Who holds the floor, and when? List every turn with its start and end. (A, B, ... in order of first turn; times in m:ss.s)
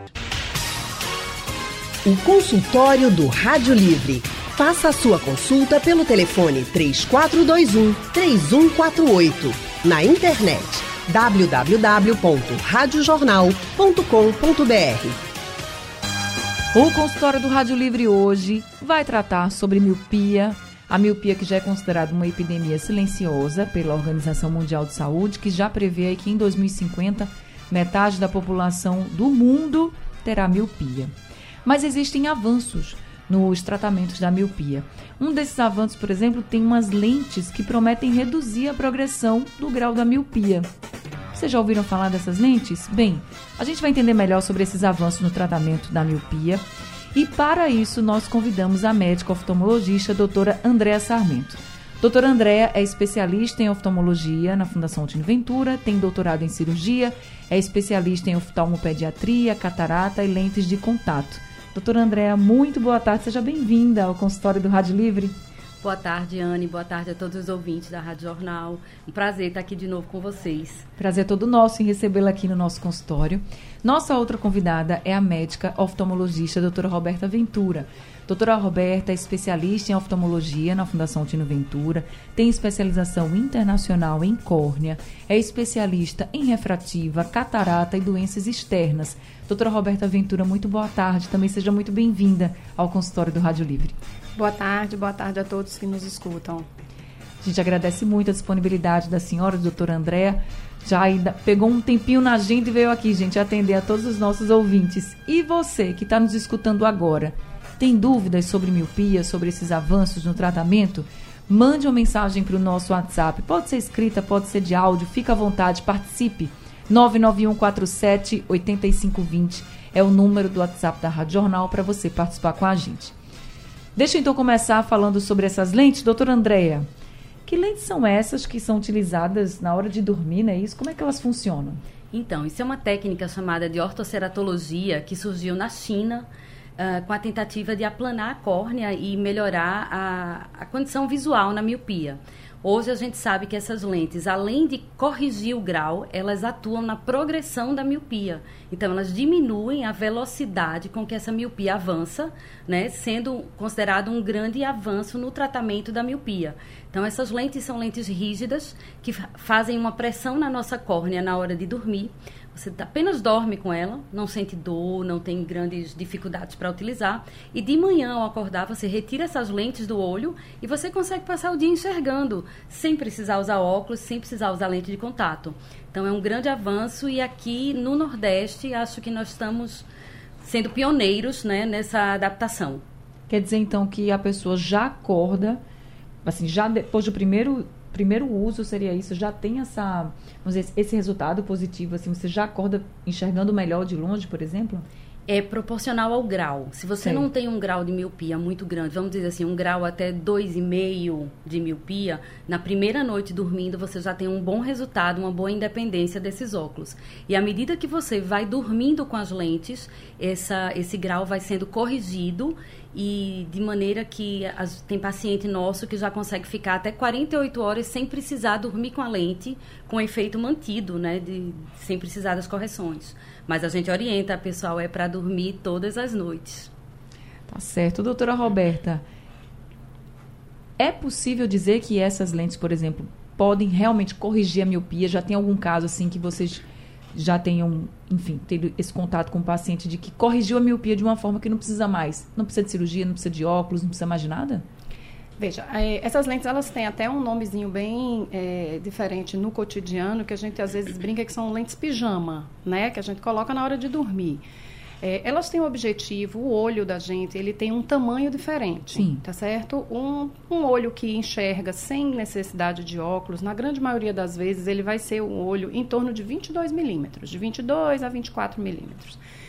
0:02.0-0:15.2 A
0:16.7-0:31.1 B
0:31.6-0:40.7 B
0:41.3-0:46.6 B
0:47.1-1:05.4 B
1:05.8-1:10.9 C
1:11.0-1:34.0 B
1:34.4-1:36.7 D
1:37.4-2:03.1 B
2:04.0-2:06.9 B
2:07.5-2:11.8 B
2:12.1-2:16.3 C
2:16.8-2:59.9 C
3:00.4-3:02.8 C
3:03.3-3:05.6 B
3:06.2-3:14.9 B
3:15.3-3:46.7 C
3:17.0-3:17.3 B
3:47.5-3:49.0 B
3:50.8-4:04.6 B
4:05.4-4:14.4 D
4:15.0-4:29.2 D
4:19.0-4:19.2 B